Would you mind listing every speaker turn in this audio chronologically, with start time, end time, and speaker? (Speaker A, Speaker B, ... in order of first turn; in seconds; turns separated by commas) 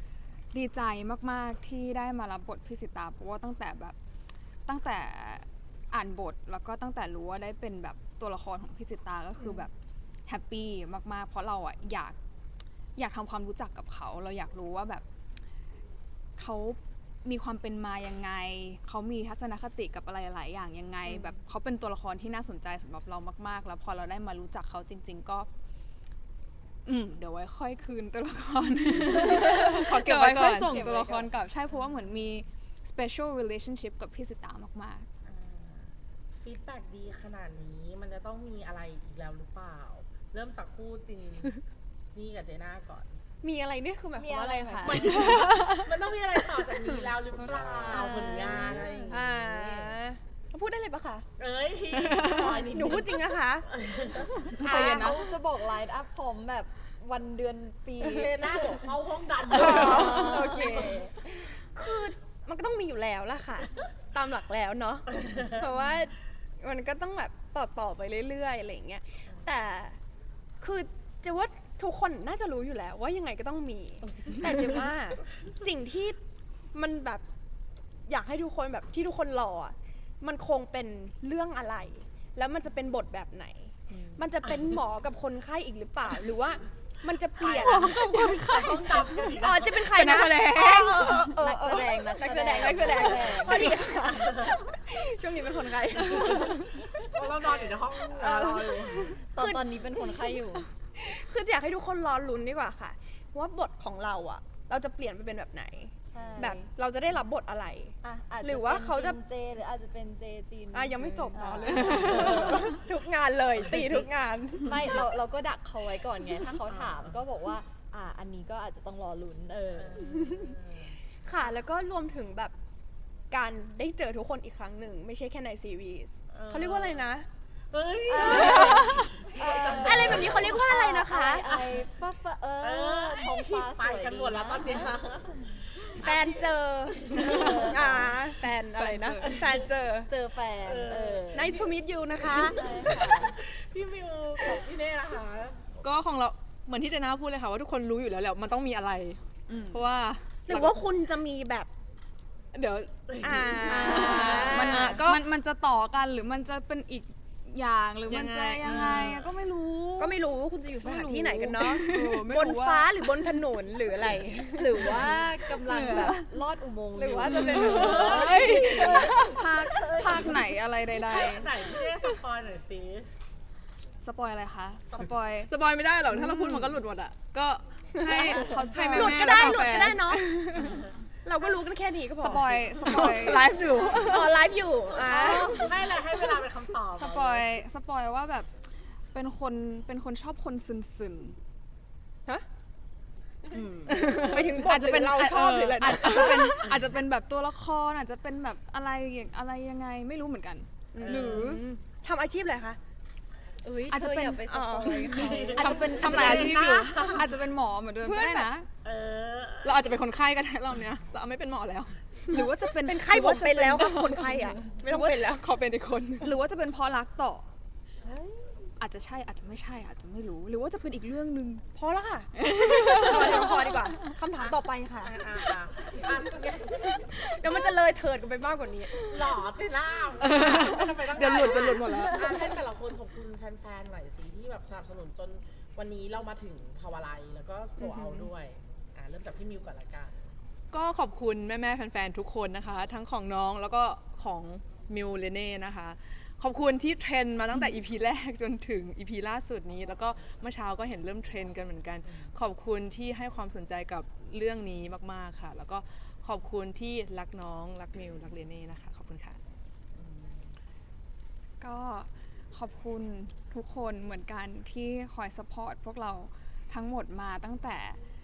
Speaker A: 0.5-4.0, Speaker A: 4.7-9.7, Speaker B: 9.4-9.7, Speaker A: 10.3-12.2, Speaker A: 13.0-15.0, Speaker A: 16.4-25.5, Speaker B: 21.1-21.3, Speaker A: 26.9-35.1, Speaker C: 29.1-29.7, Speaker D: 29.1-30.8, Speaker C: 30.6-31.3, Speaker B: 30.7-31.1, Speaker E: 35.2-41.6, Speaker E: 42.1-43.2, Speaker B: 43.4-45.8, Speaker C: 44.2-45.4, Speaker D: 44.9-45.9, Speaker A: 45.1-45.4, Speaker E: 45.8-50.0, Speaker C: 47.9-49.2, Speaker B: 49.1-51.3, Speaker E: 51.4-54.3, Speaker D: 52.0-52.5, Speaker B: 52.2-53.7, Speaker A: 54.5-55.2, Speaker B: 54.6-55.2, Speaker C: 54.6-58.9, Speaker E: 58.0-61.0, Speaker B: 59.5-70.0, Speaker C: 59.5-61.2, Speaker E: 65.2-65.6, Speaker B: 70.6-76.2, Speaker B: 76.7-77.2, Speaker B: 78.1-88.1, Speaker E: 87.4-89.9, Speaker A: 87.6-89.4, Speaker B: 89.3-100.4, Speaker D: 89.8-91.5, Speaker C: 91.4-93.8, Speaker D: 93.0-93.6, Speaker E: 93.2-94.6, Speaker D: 96.2-96.6, Speaker E: 97.1-99.2, Speaker C: 99.3-100.7, Speaker B: 101.0-109.2, Speaker C: 106.1-106.7, Speaker C: 108.0-112.8, Speaker B: 110.7-115.0, Speaker D: 111.1-112.6, Speaker E: 112.1-112.6, Speaker C: 114.7-120.5, Speaker E: 116.7-117.2, Speaker E: 119.7-121.0, Speaker B: 120.0-120.5, Speaker B: 121.2-122.5, Speaker B: 123.3-127.3, Speaker E: 126.3-127.2, Speaker E: 127.7-130.6, Speaker C: 128.1-135.0, Speaker B: 128.2-129.2, Speaker B: 129.8-131.6, Speaker E: 131.5-131.8, Speaker E: 132.6-138.1, Speaker B: 136.0-140.1, Speaker C: 137.1-138.2, Speaker A: 138.7-139.4, Speaker E: 139.3-139.7, Speaker C: 140.1-141.6, Speaker E: 140.7-145.6, Speaker B: 141.3-142.7, Speaker C: 142.4-143.4, Speaker D: 145.8-150.8, Speaker A: 149.5-149.8, Speaker B: 150.5-151.7, Speaker D: 152.5-155.3, Speaker E: 153.1-153.5, Speaker B: 153.2-155.0, Speaker A: 153.7-160.2, Speaker D: 158.1-159.3, Speaker B: 160.0-165.2, Speaker A: 160.8-163.0, Speaker D: 161.6-162.1, Speaker C: 164.6-169.1, Speaker A: 165.7-166.3, Speaker B: 165.8-166.1, Speaker B: 166.9-169.1, Speaker D: 167.3-169.4, Speaker A: 167.3-168.0, Speaker E: 167.7-170.5, Speaker A: 168.8-171.7, Speaker E: 171.0-173.1, Speaker A: 174.0-175.5, Speaker D: 175.5-180.9, Speaker A: 176.1-176.8, Speaker B: 178.0-183.2, Speaker A: 178.1-179.9, Speaker E: 180.6-180.9, Speaker A: 182.2-183.6, Speaker D: 182.8-184.4, Speaker E: 183.6-187.5, Speaker B: 184.0-186.0, Speaker A: 185.1-185.8, Speaker A: 186.9-188.5, Speaker A: 189.1-191.4, Speaker B: 193.5-196.8, Speaker A: 193.5-201.6, Speaker B: 200.9-202.8, Speaker E: 201.0-201.5, Speaker C: 203.6-206.0, Speaker A: 203.9-208.7, Speaker B: 204.4-207.3, Speaker E: 205.1-207.2, Speaker D: 205.6-207.0, Speaker B: 208.0-208.5, Speaker E: 208.8-209.8, Speaker D: 209.6-212.0, Speaker B: 212.3-215.5, Speaker A: 212.3-215.2, Speaker D: 213.7-216.4, Speaker A: 216.2-217.5, Speaker A: 218.8-221.7, Speaker B: 221.8-225.3, Speaker A: 222.4-223.8, Speaker E: 224.4-227.1, Speaker B: 225.9-229.4, Speaker E: 229.0-240.3, Speaker D: 230.2-232.4, Speaker B: 231.2-232.6, Speaker B: 237.8-238.3, Speaker D: 240.7-259.4, Speaker E: 259.9-260.5, Speaker A: 261.6-268.0